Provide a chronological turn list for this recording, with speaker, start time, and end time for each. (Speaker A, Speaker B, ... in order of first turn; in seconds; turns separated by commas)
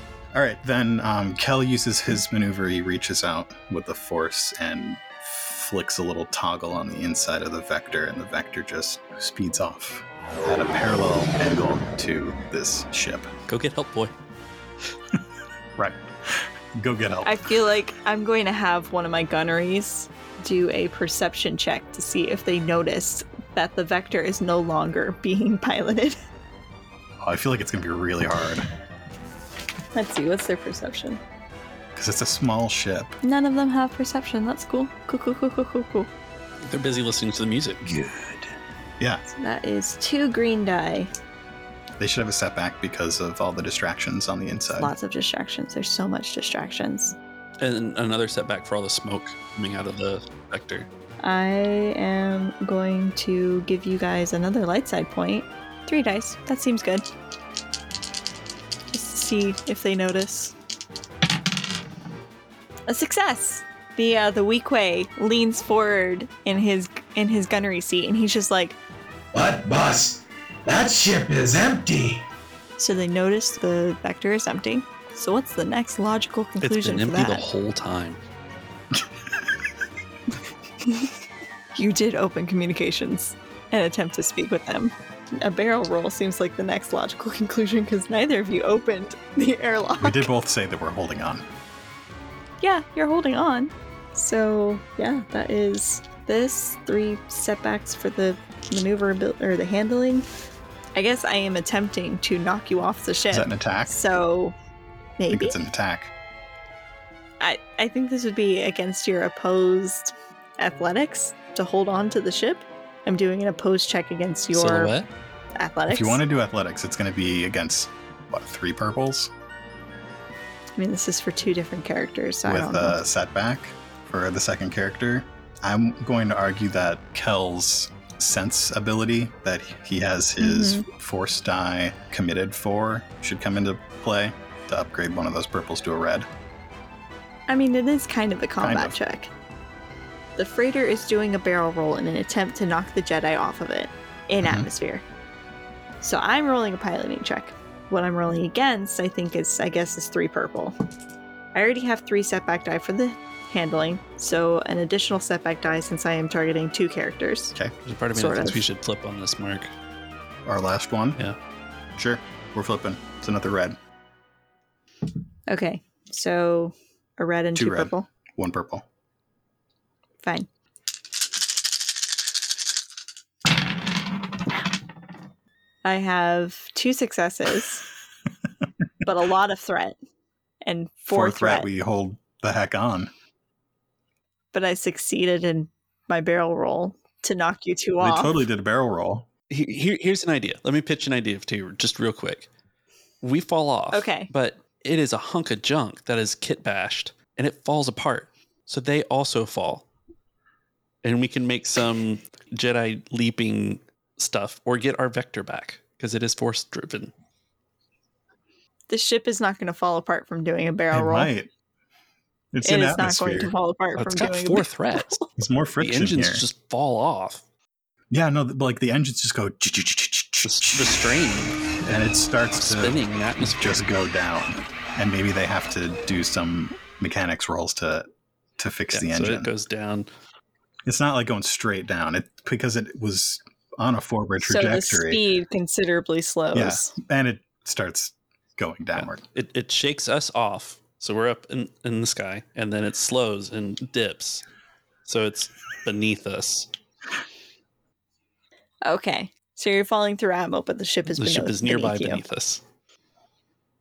Speaker A: 0.3-13.3, Speaker B: 13.5-14.1, Speaker A: 15.8-17.4, Speaker C: 17.2-26.2, Speaker A: 27.2-28.6, Speaker C: 29.9-31.2, Speaker A: 31.9-33.2, Speaker C: 33.2-36.1, Speaker B: 36.6-37.9, Speaker C: 39.3-41.1, Speaker A: 42.0-44.9, Speaker C: 44.7-47.1, Speaker B: 47.6-50.9, Speaker C: 51.2-57.1, Speaker C: 58.9-60.5, Speaker C: 62.9-68.8, Speaker D: 69.3-72.2, Speaker C: 72.8-77.4, Speaker B: 76.6-78.2, Speaker C: 80.8-81.1, Speaker C: 81.7-90.3, Speaker A: 90.0-91.5, Speaker C: 92.6-100.3, Speaker C: 101.0-104.5, Speaker A: 103.3-104.0, Speaker C: 105.2-105.6, Speaker A: 105.3-106.1, Speaker C: 107.4-114.9, Speaker B: 114.5-115.1, Speaker C: 115.5-116.2, Speaker A: 115.9-119.3, Speaker C: 120.8-123.0, Speaker A: 122.4-136.3, Speaker C: 130.4-130.9, Speaker C: 137.5-139.3, Speaker A: 138.6-138.9, Speaker C: 140.4-145.0, Speaker A: 144.4-144.7, Speaker C: 146.0-150.7, Speaker C: 151.5-157.6, Speaker B: 157.8-159.7, Speaker C: 158.1-158.6, Speaker A: 160.4-161.2, Speaker A: 162.0-163.8, Speaker C: 165.5-168.1, Speaker A: 167.5-168.8, Speaker C: 170.2-170.5, Speaker C: 175.8-177.8, Speaker C: 179.0-179.9, Speaker C: 180.6-181.7, Speaker A: 181.1-183.1, Speaker C: 184.5-188.4, Speaker A: 188.0-189.3, Speaker B: 189.5-192.5, Speaker B: 193.2-199.8, Speaker C: 193.9-194.3, Speaker B: 201.0-207.1, Speaker C: 208.9-211.3, Speaker A: 210.9-211.5, Speaker A: 212.5-213.5, Speaker C: 212.6-215.2, Speaker B: 213.9-215.2, Speaker A: 215.4-216.4, Speaker B: 215.8-217.4, Speaker A: 218.1-221.1, Speaker B: 220.4-221.6, Speaker A: 221.8-228.1, Speaker B: 222.6-223.8, Speaker A: 228.6-229.5, Speaker B: 228.9-230.1, Speaker A: 230.9-235.2, Speaker C: 234.4-236.9, Speaker A: 236.5-239.2, Speaker B: 238.9-244.4, Speaker B: 245.0-246.7, Speaker C: 248.8-252.2, Speaker B: 251.2-252.6